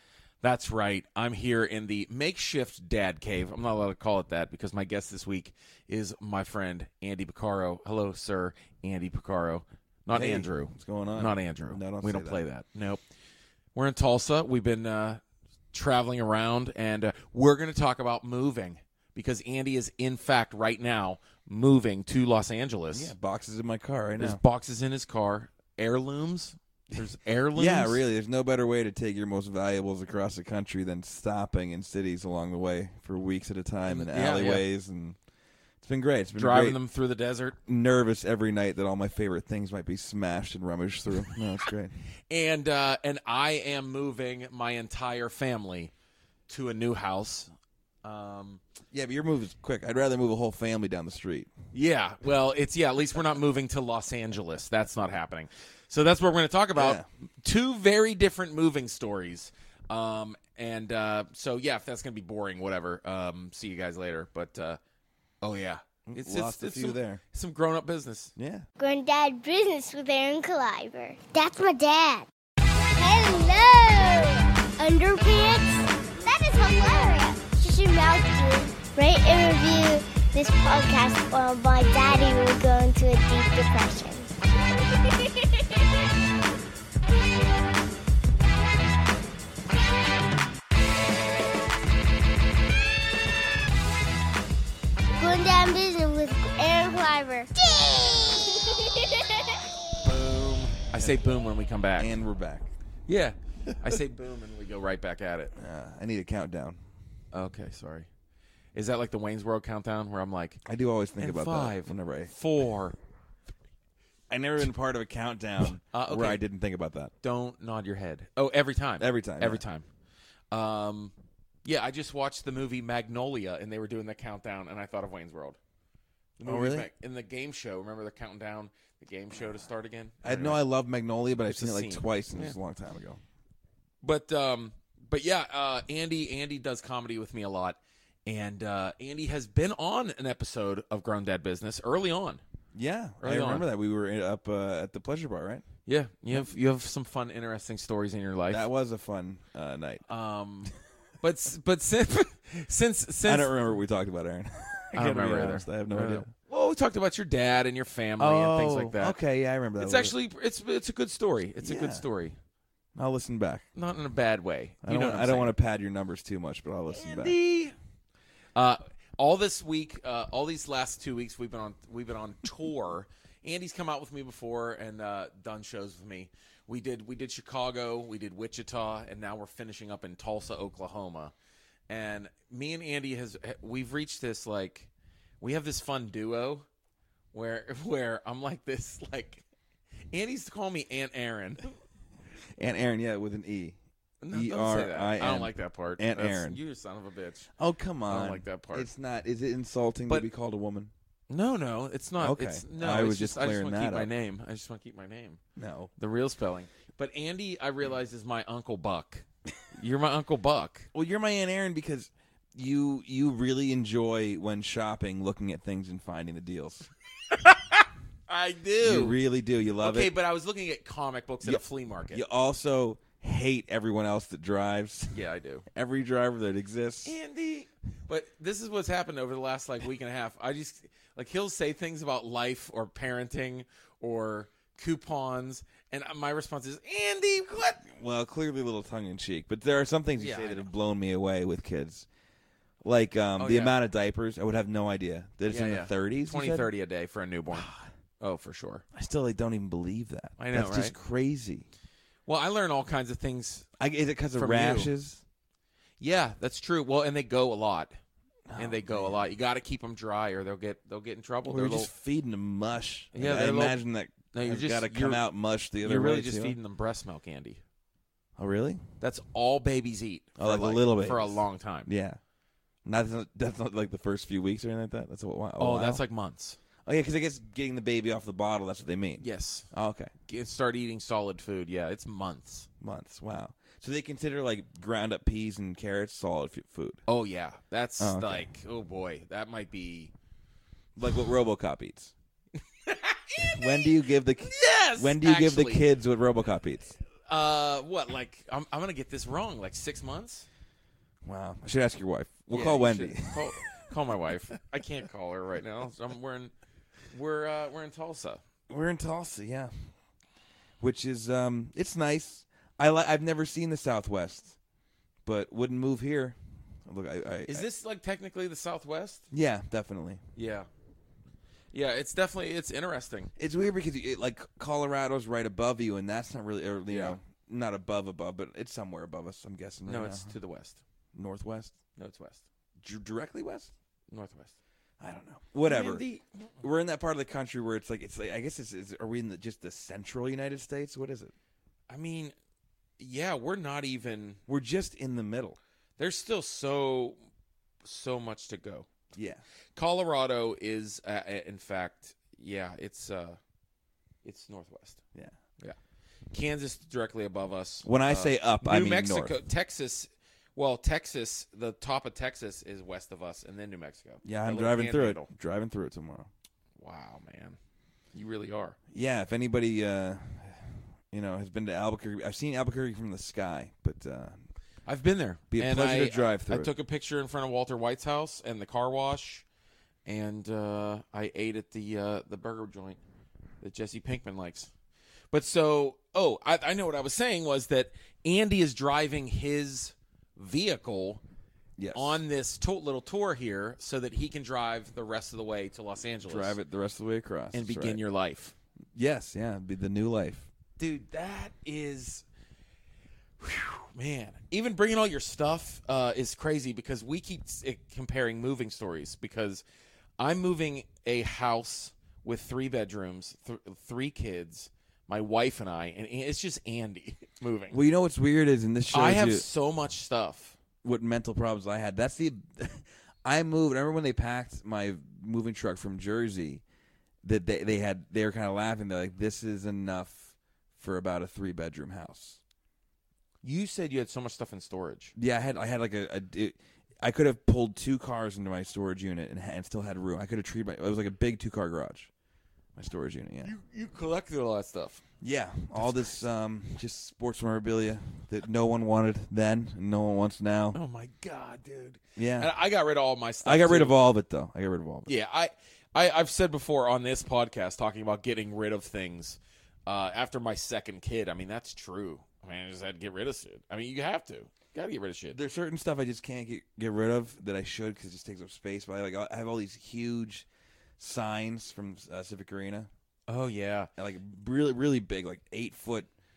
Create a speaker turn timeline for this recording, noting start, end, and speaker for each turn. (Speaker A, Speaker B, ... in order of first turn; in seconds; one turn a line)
Speaker A: 0.4-13.0
Speaker B: 10.1-12.4
Speaker A: 13.8-15.2
Speaker A: 15.7-23.1
Speaker B: 22.9-24.4
Speaker A: 24.2-28.0
Speaker B: 27.6-35.2
Speaker A: 33.8-34.7
Speaker B: 35.8-36.8
Speaker A: 36.4-37.6
Speaker B: 37.7-42.0
Speaker A: 42.3-45.9
Speaker A: 46.5-47.5
Speaker A: 48.0-48.6
Speaker B: 48.9-51.5
Speaker A: 51.7-64.8
Speaker B: 56.8-57.1
Speaker A: 65.4-68.3
Speaker B: 66.1-67.2
Speaker B: 68.4-68.7
Speaker C: 68.8-72.3
Speaker C: 72.9-84.3
Speaker C: 95.2-99.4
Speaker A: 100.0-102.2
Speaker B: 102.0-102.7
Speaker A: 103.1-105.5
Speaker B: 105.6-106.8
Speaker A: 107.3-108.1
Speaker A: 108.7-110.6
Speaker B: 110.7-112.3
Speaker A: 111.2-113.0
Speaker B: 114.3-117.1
Speaker A: 115.9-116.4
Speaker A: 117.2-119.9
Speaker B: 119.0-119.6
Speaker A: 120.5-121.1
Speaker A: 121.6-125.6
Speaker A: 126.4-130.6
Speaker B: 126.5-126.9
Speaker B: 130.2-133.2
Speaker A: 131.5-132.6
Speaker A: 134.0-142.4
Speaker B: 142.7-145.6
Speaker A: 143.2-143.7
Speaker A: 145.9-148.7
Speaker B: 148.5-150.0
Speaker A: 150.1-153.6
Speaker B: 153.2-156.3
Speaker A: 154.9-159.2
Speaker B: 158.2-160.1
Speaker A: 159.8-162.4
Speaker B: 161.6-162.0
Speaker B: 162.9-163.7
Speaker A: 163.8-165.5
Speaker B: 164.8-167.4
Speaker A: 166.9-167.8
Speaker A: 168.6-181.3
Speaker A: 181.9-184.9
Speaker A: 185.4-186.7
Speaker A: 187.3-189.4
Speaker A: 190.1-191.7
Speaker B: 192.6-193.8
Speaker A: 194.2-197.5
Speaker B: 194.3-196.6
Speaker B: 197.6-200.9
Speaker A: 198.1-198.9
Speaker A: 201.3-205.4
Speaker B: 202.2-204.1
Speaker B: 205.6-205.9
Speaker A: 206.0-210.9
Speaker B: 210.9-216.9
Speaker A: 217.3-219.2
Speaker B: 218.8-220.1
Speaker A: 219.8-222.2
Speaker B: 221.4-225.2
Speaker A: 225.1-225.7
Speaker B: 225.7-227.2
Speaker A: 227.1-237.9
Speaker B: 237.9-242.1
Speaker A: 240.2-240.7
Speaker B: 242.8-246.7
Speaker A: 243.4-243.8
Speaker A: 245.5-248.8
Speaker B: 247.5-247.9
Speaker B: 248.9-251.7
Speaker A: 250.4-251.0
Speaker A: 252.3-253.7
Speaker B: 253.8-255.2
Speaker A: 254.3-254.9
Speaker A: 256.0-257.9
Speaker B: 258.5-259.2
Speaker A: 258.6-261.9
Speaker B: 261.5-266.6
Speaker A: 263.1-265.2
Speaker A: 265.8-267.6
Speaker B: 268.4-268.8
Speaker A: 269.0-271.9
Speaker B: 270.4-272.2
Speaker B: 272.9-276.0
Speaker A: 275.6-276.6
Speaker B: 276.9-280.1
Speaker A: 279.2-279.7
Speaker A: 280.3-282.7
Speaker B: 282.8-287.0
Speaker A: 287.1-290.1
Speaker B: 288.0-288.5
Speaker B: 291.0-292.1
Speaker A: 292.8-293.9
Speaker B: 293.4-297.0
Speaker A: 294.4-295.9
Speaker A: 297.3-300.5
Speaker B: 301.2-303.5
Speaker A: 302.5-306.5
Speaker A: 307.1-308.4
Speaker B: 308.7-309.7
Speaker B: 310.8-314.6
Speaker B: 315.2-317.7
Speaker A: 317.5-319.3
Speaker B: 319.3-320.2
Speaker A: 320.4-320.7
Speaker A: 321.7-323.3
Speaker B: 323.4-330.3
Speaker A: 326.9-327.2
Speaker A: 329.9-330.8
Speaker B: 331.1-331.8
Speaker A: 332.0-332.4
Speaker B: 332.8-333.7
Speaker A: 334.1-334.5
Speaker B: 335.0-336.0
Speaker A: 335.6-336.5
Speaker B: 336.6-341.3
Speaker A: 341.9-342.3
Speaker A: 343.0-344.4
Speaker B: 344.5-345.6
Speaker A: 346.0-347.2
Speaker A: 347.8-348.9
Speaker B: 349.1-349.4
Speaker A: 349.8-353.4
Speaker A: 354.2-355.0
Speaker A: 356.3-365.3
Speaker B: 357.9-359.4
Speaker B: 364.2-366.3
Speaker A: 366.8-367.6
Speaker A: 368.1-368.8
Speaker B: 368.9-374.4
Speaker A: 374.9-379.4
Speaker B: 375.5-376.7
Speaker A: 380.1-383.0
Speaker A: 383.6-384.7
Speaker A: 385.3-391.2
Speaker B: 391.8-392.2
Speaker A: 391.9-396.6
Speaker B: 396.3-398.0
Speaker A: 397.5-398.5
Speaker B: 398.9-400.5
Speaker A: 400.8-402.2
Speaker A: 403.4-409.6
Speaker A: 410.2-417.8
Speaker B: 417.7-419.4
Speaker A: 418.9-420.6
Speaker B: 420.8-426.6
Speaker B: 427.2-432.4
Speaker A: 433.4-435.1
Speaker B: 435.2-442.1
Speaker B: 442.8-443.5
Speaker A: 443.4-445.0
Speaker B: 445.2-450.8
Speaker A: 445.8-446.2
Speaker A: 450.7-454.0
Speaker B: 452.2-452.5
Speaker B: 453.4-455.1
Speaker A: 455.1-465.4
Speaker B: 465.3-470.5
Speaker B: 471.0-472.9
Speaker A: 473.3-473.9
Speaker B: 474.0-476.1